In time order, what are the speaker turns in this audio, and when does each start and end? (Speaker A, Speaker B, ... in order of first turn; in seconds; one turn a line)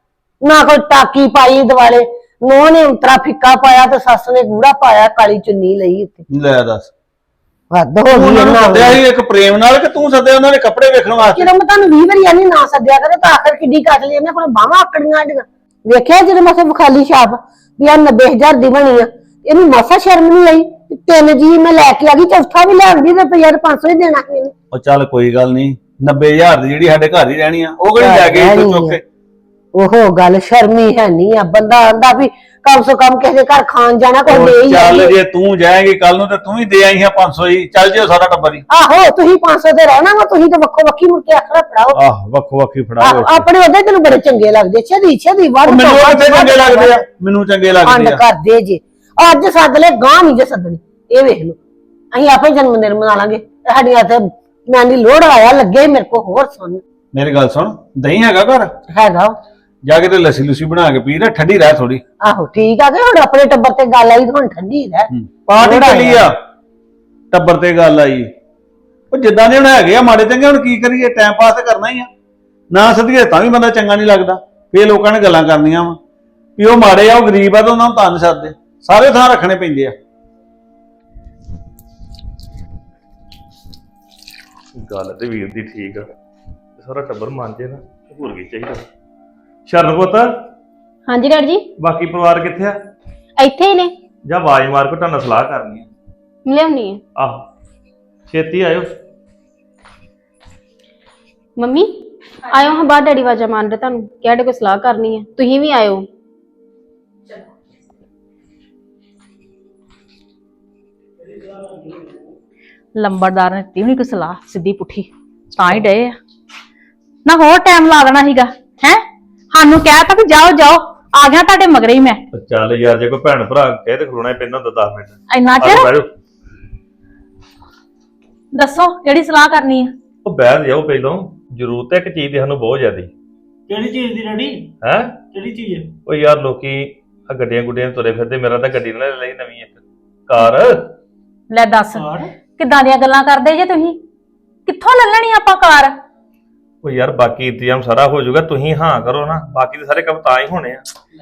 Speaker A: 0.4-6.2
Speaker B: 6.3-6.9
Speaker A: 7.7-9.0
Speaker B: 8.1-11.5
Speaker A: 11.2-24.5
Speaker B: 24.7-29.0
Speaker A: 28.0-29.0
Speaker A: 29.7-35.1
Speaker B: 34.3-38.6
Speaker A: 38.7-42.0
Speaker B: 41.9-43.5
Speaker A: 43.0-47.0
Speaker B: 45.6-48.2
Speaker A: 47.8-51.6
Speaker A: 52.1-56.8
Speaker B: 57.1-58.7
Speaker A: 58.9-59.3
Speaker B: 59.8-62.0
Speaker A: 62.2-66.2
Speaker B: 65.1-66.3
Speaker B: 67.3-68.3
Speaker B: 69.1-72.1
Speaker B: 72.7-76.0
Speaker B: 76.6-79.9
Speaker C: 84.8-86.1
Speaker C: 86.8-88.8
Speaker C: 89.7-90.3
Speaker D: 91.1-91.7
Speaker C: 91.8-92.8
Speaker D: 93.4-93.9
Speaker C: 94.2-95.9
Speaker D: 96.4-97.0
Speaker C: 97.2-97.4
Speaker C: 98.3-98.9
Speaker D: 101.6-101.9
Speaker D: 102.5-106.1
Speaker E: 111.3-112.2
Speaker F: 113.0-116.2
Speaker F: 117.2-122.2
Speaker C: 122.3-126.1
Speaker F: 125.3-125.9
Speaker F: 128.5-129.9
Speaker C: 130.2-133.1
Speaker E: 133.7-134.7
Speaker C: 134.8-135.1
Speaker E: 135.3-135.9
Speaker C: 136.1-140.9
Speaker F: 141.5-144.0
Speaker E: 141.9-142.3
Speaker F: 144.7-145.9
Speaker C: 146.8-150.8